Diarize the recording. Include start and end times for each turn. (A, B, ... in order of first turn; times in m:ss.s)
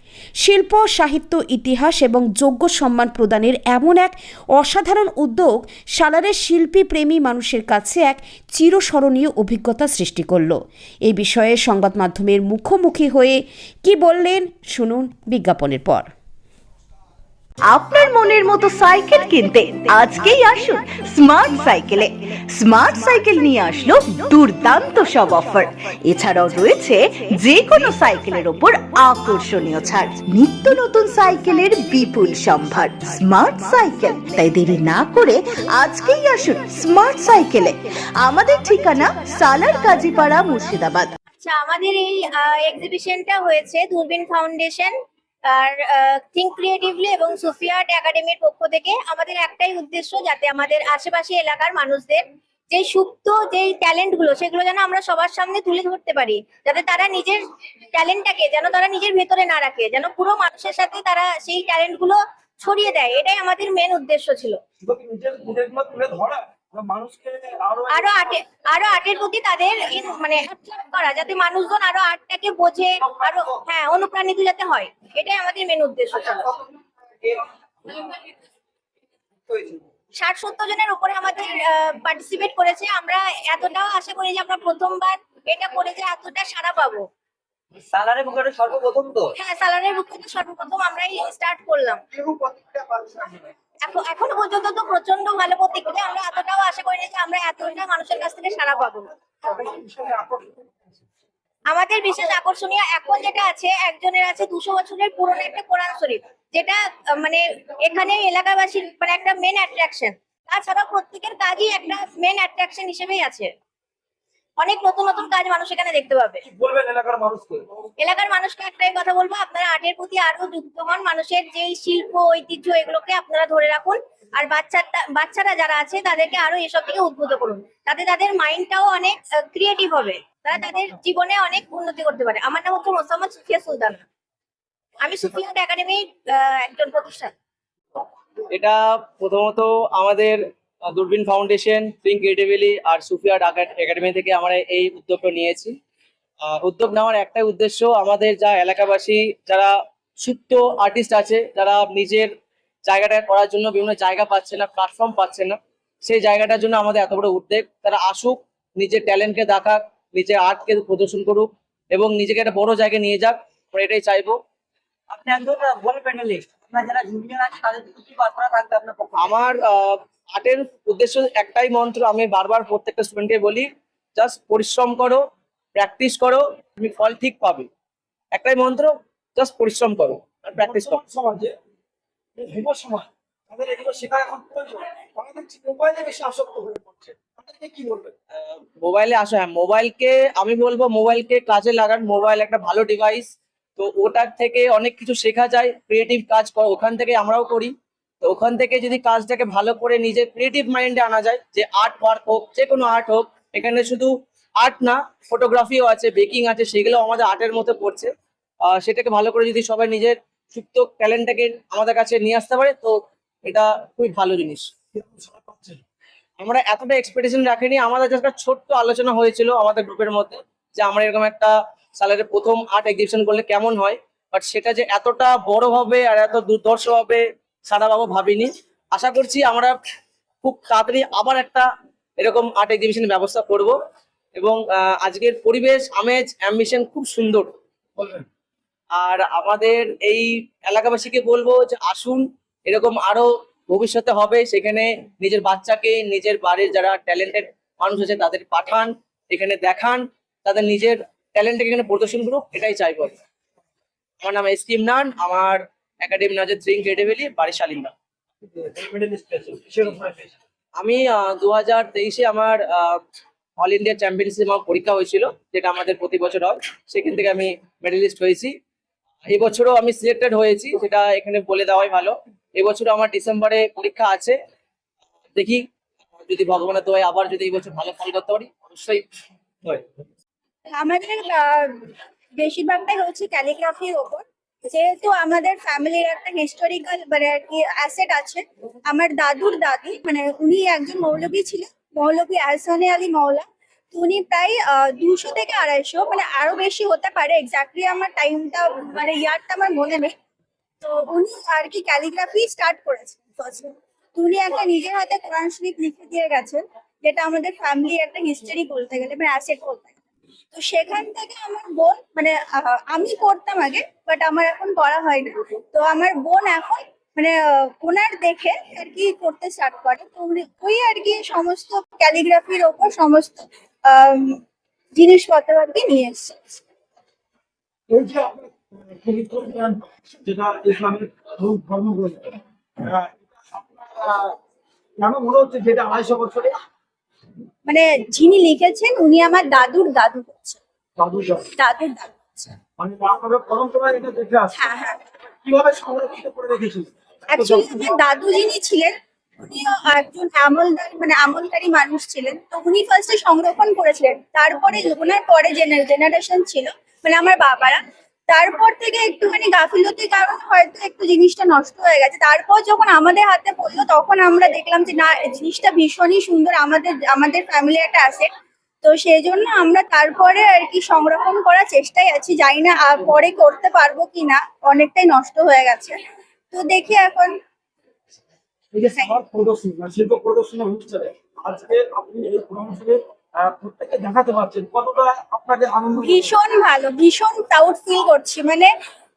0:00.4-0:16.1 A
0:17.7-0:41.1 B
0:41.4-0:44.9 C
0:45.5-0:57.4 C
0:57.9-1:04.6 C
1:04.8-1:08.3 D
1:07.9-1:16.5 C
1:20.1-1:27.0 C
1:27.8-1:29.3 E
1:29.4-1:32.0 C
1:32.8-1:33.0 E
1:33.8-1:39.1 C
1:39.4-1:40.6 D
1:41.7-1:53.5 C
1:54.6-1:56.4 C
1:56.4-1:57.6 D
1:58.0-2:14.0 C
2:15.0-2:17.3 C
2:18.5-2:25.7 F
2:26.5-2:32.3 F
2:32.8-2:44.4 F
2:45.1-2:49.3 E
2:49.1-2:55.2 F
2:55.8-2:57.7 F
2:58.3-3:01.0 F
3:00.6-3:01.5 D
3:02.4-3:08.1 D
3:08.4-3:28.1 F
3:28.7-3:34.7 F
3:34.9-3:35.8 D
3:36.4-3:49.7 F
3:50.4-3:51.7 F
3:52.2-3:53.7 F
3:54.4-3:57.5 F
3:59.0-4:13.2 F
4:14.2-4:17.9 F
4:18.4-4:20.3 D
4:20.8-4:23.0 F
4:23.6-4:28.5 F
4:29.3-4:34.4 F
4:35.4-4:35.6 F
4:36.3-4:39.0 F
4:40.7-4:41.7 G
4:42.4-5:00.1 G
5:00.8-5:09.9 G
5:10.5-5:24.4 G
5:24.9-5:26.6 G
5:27.9-5:34.3 D
5:35.0-5:36.5 D
5:37.6-5:40.6 G
5:41.0-5:41.5 D
5:41.5-5:42.5 G
5:42.8-5:44.7 D
5:44.6-5:45.0 G
5:45.4-5:47.8 D
5:47.3-6:08.3 G
6:08.8-6:16.0 G
6:16.5-6:17.3 G
6:18.7-6:26.3 D
6:26.0-6:28.7 G